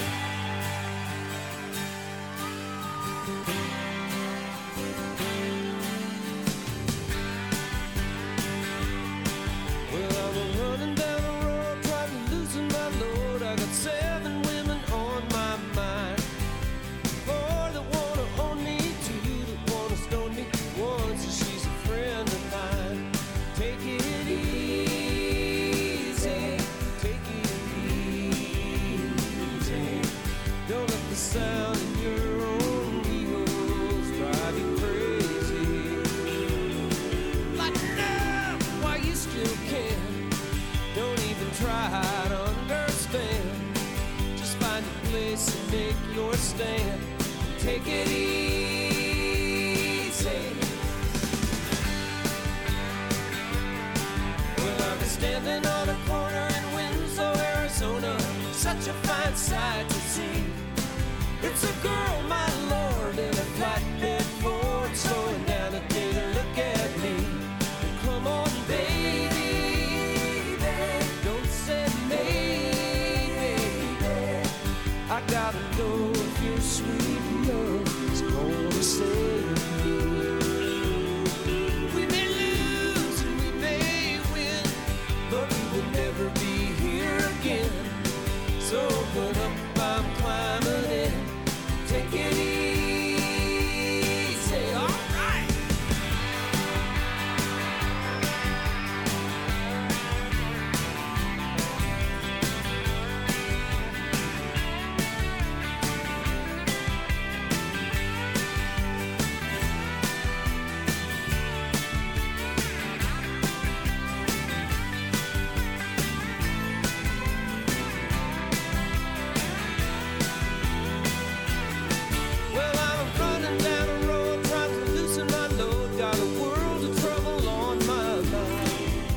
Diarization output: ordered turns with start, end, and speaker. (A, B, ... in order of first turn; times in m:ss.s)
0:09.8-0:16.3 A
0:17.2-0:30.1 A
0:30.6-0:36.4 A
0:37.4-0:40.3 A
0:40.9-0:43.8 A
0:44.3-0:50.8 A
0:54.5-1:00.7 A
1:01.4-1:14.5 A
1:15.1-1:20.7 A
1:21.4-1:35.7 A
2:02.5-2:08.9 A